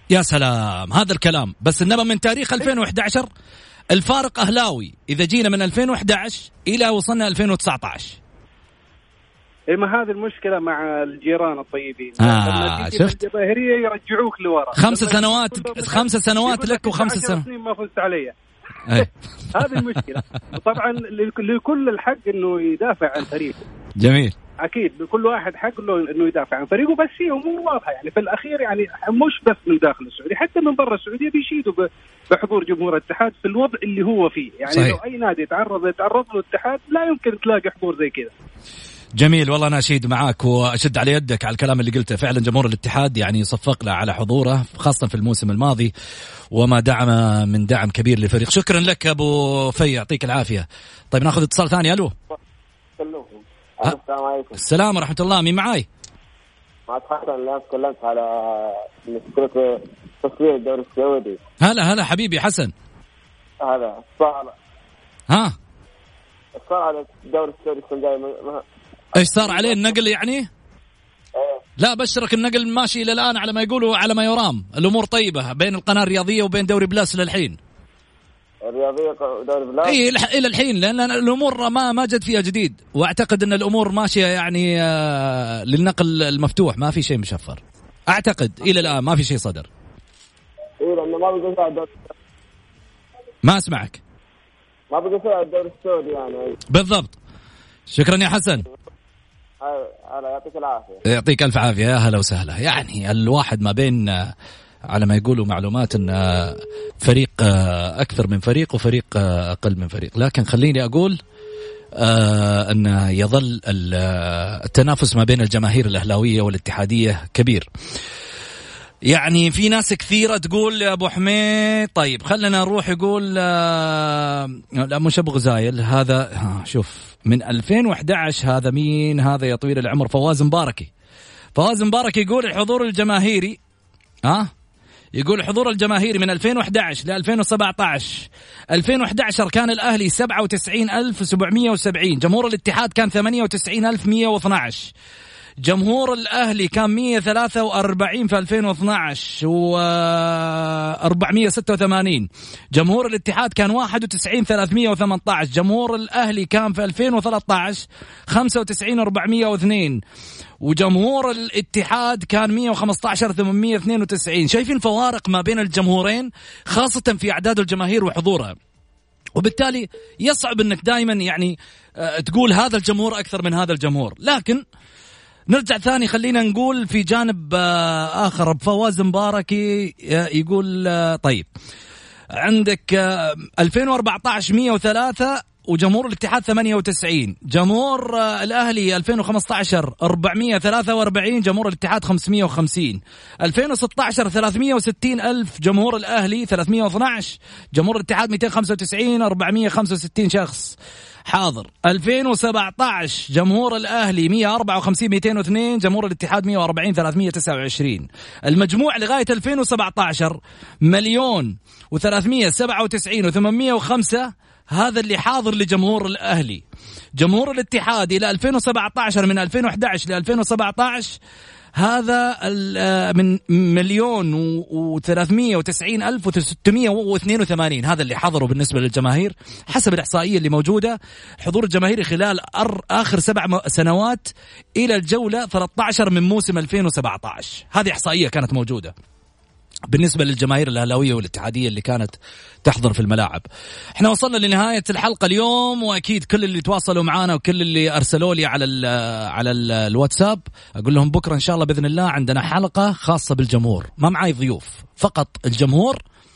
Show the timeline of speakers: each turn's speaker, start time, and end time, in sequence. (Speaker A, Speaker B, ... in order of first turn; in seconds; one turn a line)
Speaker A: 0.1-3.3
Speaker A: 3.9-8.2
Speaker B: 9.7-18.3
Speaker A: 12.2-13.2
Speaker A: 14.8-17.4
Speaker B: 18.9-23.6
Speaker A: 24.0-24.3
Speaker B: 24.6-38.3
Speaker A: 34.7-35.0
Speaker A: 39.2-45.9
Speaker A: 46.5-52.1
Speaker C: 53.0-54.6
Speaker A: 54.6-55.9
Speaker C: 56.9-61.4
Speaker A: 61.6-62.7
Speaker C: 63.6-64.5
Speaker A: 65.3-65.5
Speaker C: 66.5-68.6
Speaker A: 69.1-70.5
Speaker C: 69.2-69.9
Speaker C: 71.3-71.6
Speaker A: 71.8-77.6
Speaker C: 78.6-80.0
Speaker A: 79.8-89.7
Speaker C: 90.8-91.9
Speaker A: 93.4-94.0
Speaker C: 94.9-96.5
Speaker A: 96.7-97.2
Speaker A: 97.9-98.6
Speaker C: 99.6-101.0
Speaker A: 101.0-104.3
Speaker A: 104.9-111.2
Speaker A: 112.0-117.7
Speaker A: 119.1-130.9
Speaker A: 131.5-133.6
Speaker A: 134.2-134.5
Speaker A: 135.1-144.9
Speaker A: 145.6-160.0
Speaker A: 160.6-168.6
Speaker A: 169.3-174.6
Speaker A: 175.5-181.5
Speaker A: 182.3-216.6
Speaker A: 217.2-221.2
Speaker A: 221.8-238.9
Speaker A: 239.9-243.4
Speaker A: 243.9-256.0